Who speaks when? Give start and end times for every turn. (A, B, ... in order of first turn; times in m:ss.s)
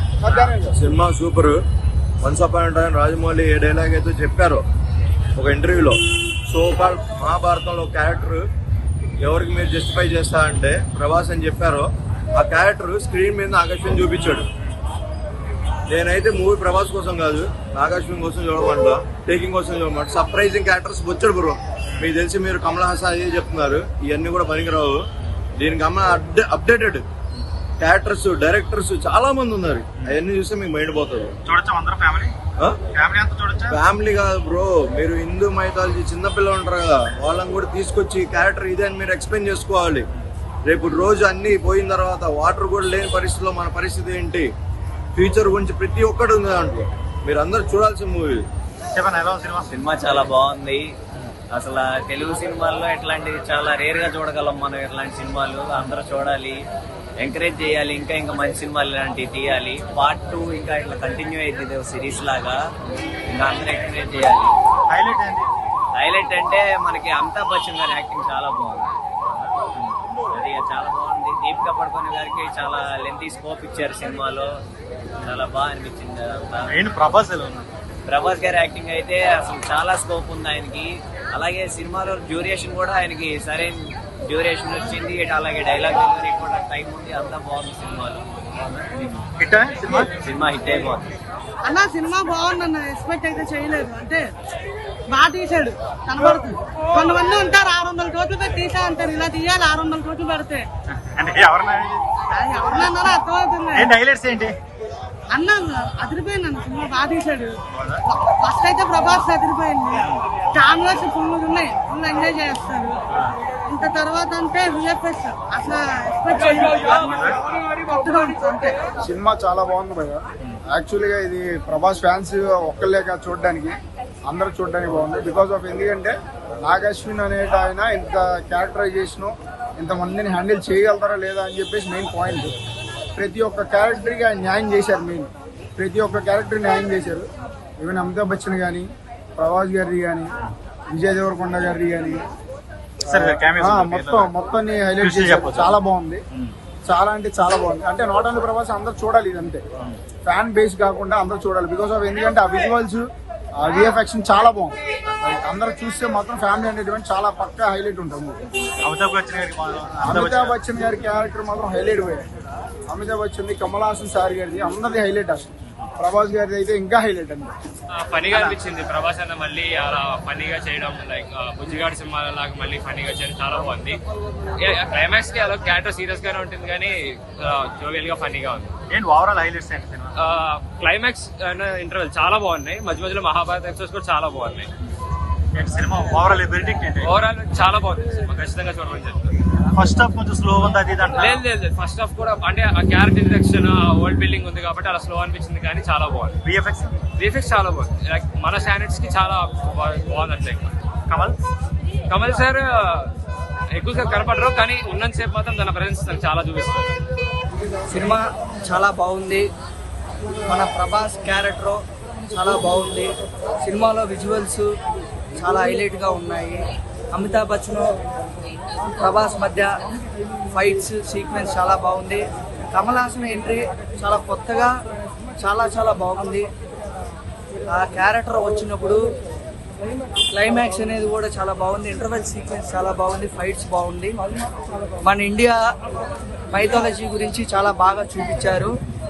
0:00.2-0:00.8 A
0:00.7-0:01.6 B
0:02.2-0:04.6 B
0:05.4-0:08.5 B
0:09.2-0:14.5 B
0:15.9-0:25.0 B
0:25.6-0:27.0 B
0:27.8-0:31.4 B
0:31.4-0:32.3 C
0:32.9-0:33.8 C
0:33.7-0:40.1 B
0:40.7-0:44.5 B
0:45.1-0:48.4 B
0:48.9-0:49.7 C
0:49.7-0:50.9 D
0:51.5-0:56.6 D
0:57.2-1:02.6 D
1:03.3-1:04.5 D
1:04.9-1:05.5 C
1:06.0-1:09.5 D
1:10.3-1:14.5 D
1:15.3-1:16.8 D
1:16.7-1:17.7 C
1:18.1-1:28.2 D
1:29.4-1:30.1 C
1:30.2-1:31.1 D
1:31.6-1:34.2 E
1:35.1-1:40.6 E
1:40.9-1:42.0 C
1:42.3-1:43.9 E
1:43.7-1:44.5 C
1:45.3-1:47.5 E
1:47.7-1:48.0 C
1:48.1-1:52.9 E
1:53.7-1:57.1 E
1:57.0-1:57.4 C
1:57.7-1:58.8 E
1:59.0-2:12.5 A
2:13.2-2:20.3 A
2:20.9-2:22.2 A
2:23.1-2:24.3 C
2:23.1-2:26.2 A
2:25.0-2:25.8 C
2:26.8-2:29.6 A
2:30.2-2:33.1 A
2:33.6-2:38.4 A
2:38.8-2:40.5 C
2:40.0-2:42.2 A
2:42.9-2:47.5 A
2:48.0-2:54.0 F
2:48.3-2:48.5 C
2:54.6-2:58.7 F
2:58.9-3:00.1 C
3:00.2-3:04.7 F
3:05.5-3:07.1 C
3:07.0-3:09.3 F
3:09.8-3:11.4 C
3:11.2-3:16.4 F
3:16.4-3:16.9 C
3:17.2-3:20.7 F
3:21.1-3:21.4 C
3:22.1-3:23.1 F
3:23.7-3:26.9 F
3:27.9-3:29.4 G
3:30.5-3:33.1 G
3:33.6-3:34.7 G
3:35.4-3:36.6 G
3:37.1-3:37.8 G
3:39.0-3:39.7 G
3:40.5-3:44.7 G
3:45.4-3:46.5 G
3:47.7-3:49.0 G
3:50.3-3:54.2 G
3:55.0-3:55.6 G
3:56.5-3:58.7 G